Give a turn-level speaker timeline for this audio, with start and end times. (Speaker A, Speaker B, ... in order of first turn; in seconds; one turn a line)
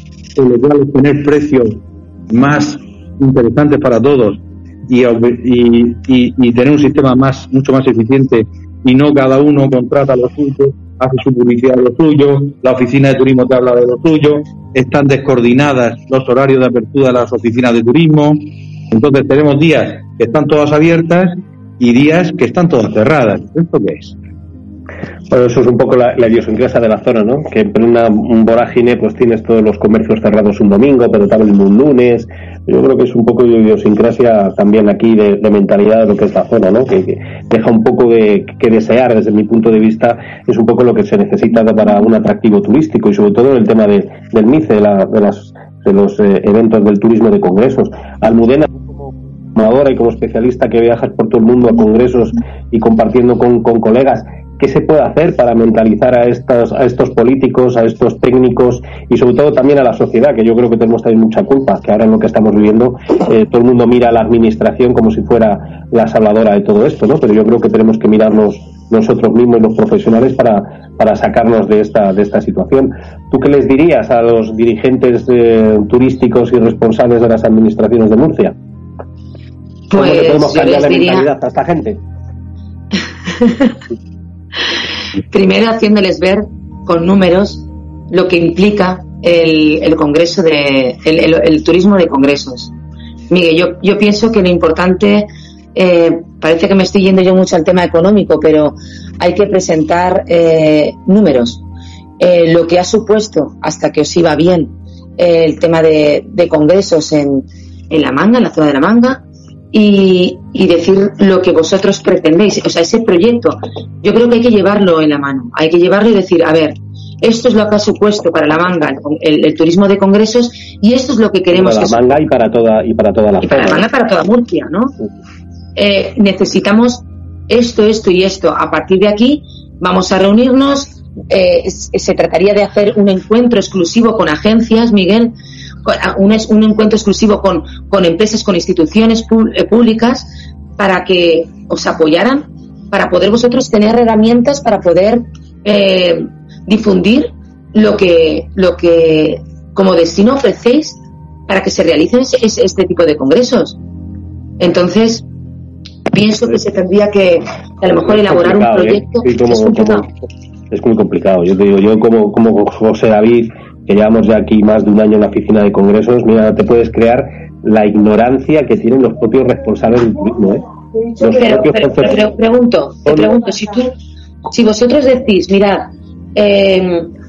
Speaker A: 0.3-24.2
Speaker B: 25.3-78.5
Speaker C: 79.9-81.3
Speaker B: 79.9-82.0
Speaker C: 83.4-83.8
Speaker C: 85.2-92.7
Speaker C: 93.3-101.6
Speaker C: 102.2-122.2
Speaker B: 121.5-123.8
Speaker C: 123.4-125.0
Speaker C: 125.8-153.8
Speaker C: 154.6-155.2
Speaker C: 156.1-160.1
Speaker B: 157.9-160.1
Speaker B: 160.7-170.6
Speaker B: 171.2-172.2
Speaker C: 171.2-173.9
Speaker C: 174.5-177.1